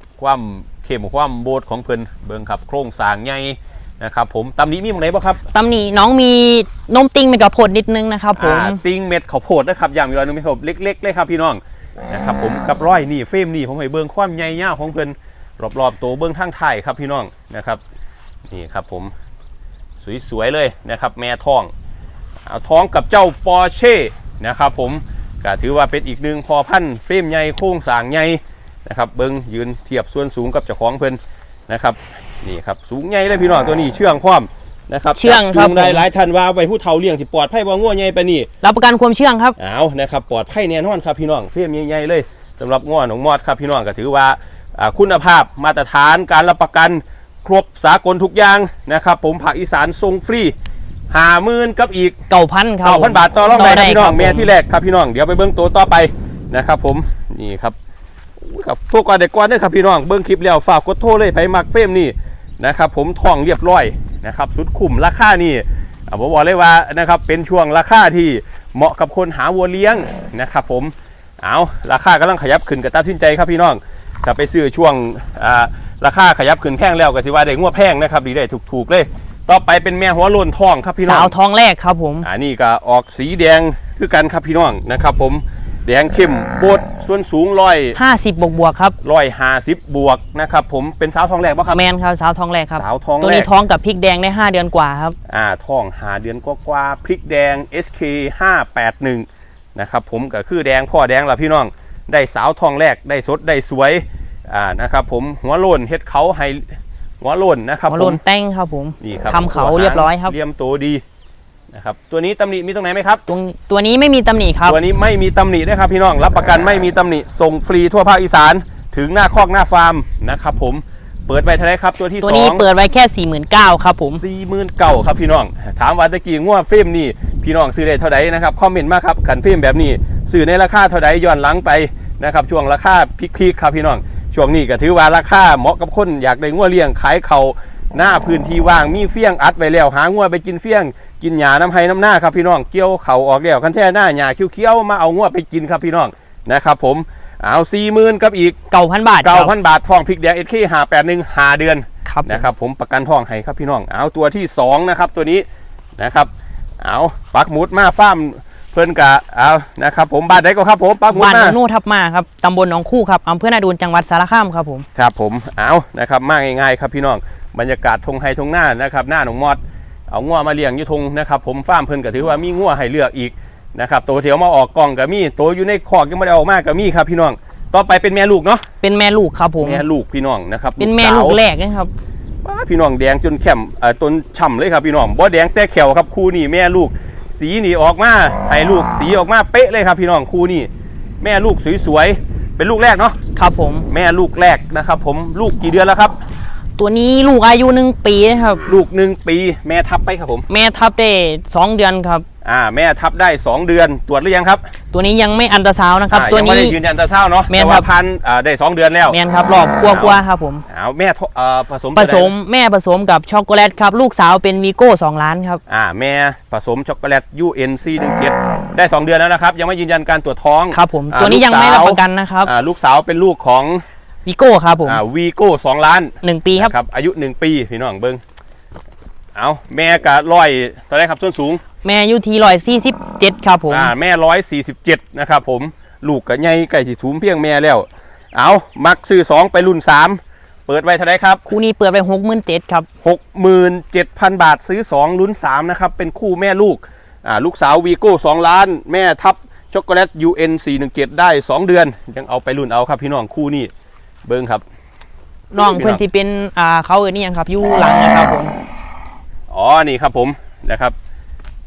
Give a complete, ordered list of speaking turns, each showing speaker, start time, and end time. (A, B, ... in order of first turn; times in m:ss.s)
0:00.2-0:05.4 A
0:05.5-0:08.8 B
0:08.4-0:17.8 A
0:18.5-0:19.1 A
0:20.0-0:21.7 A
0:22.4-0:38.5 A
0:35.1-0:36.0 B
0:38.6-0:39.6 B
0:39.6-0:50.5 A
0:51.1-0:52.2 A
0:52.3-0:54.5 B
0:52.8-0:57.8 A
0:58.4-1:21.3 A
1:21.0-1:22.3 B
1:22.2-1:28.0 A
1:27.9-1:29.0 B
1:29.0-1:31.8 A
1:31.7-1:35.2 B
1:32.7-1:33.5 A
1:35.3-1:48.2 A
1:47.9-1:50.3 B
1:49.0-1:51.0 A
1:51.7-1:53.2 A
1:53.3-1:54.8 B
1:54.6-2:02.6 A
2:02.2-2:04.2 B
2:04.1-2:28.6 A
2:28.7-2:29.5 B
2:29.2-2:35.4 A
2:32.0-2:32.4 B
2:36.0-2:41.6 A
2:41.1-2:44.8 B
2:45.0-2:58.6 A
2:58.8-2:59.8 B
2:59.6-3:01.4 A
3:00.8-3:01.9 B
3:02.4-3:10.7 A
3:11.2-3:13.2 A
3:13.4-3:13.8 B
3:13.9-3:16.2 A
3:16.8-3:18.6 B
3:18.6-3:20.4 A
3:20.5-3:22.2 B
3:22.4-3:24.6 A
3:24.9-3:26.8 B
3:26.1-3:29.2 A
3:27.5-3:27.8 B
3:29.1-3:30.6 B
3:29.9-3:30.2 A
3:30.7-3:32.3 A
3:31.9-3:35.6 B
3:35.7-3:43.8 A
3:40.7-3:42.5 B
3:44.2-3:45.0 B
3:44.8-3:48.2 A
3:46.2-3:46.7 B
3:49.3-3:51.6 A
3:51.8-3:53.9 B
3:53.7-4:01.4 A
4:01.5-4:02.9 B
4:03.0-4:13.7 A
4:14.2-4:14.6 A
4:15.5-4:18.5 B
4:15.6-4:16.0 A
4:19.5-4:20.9 A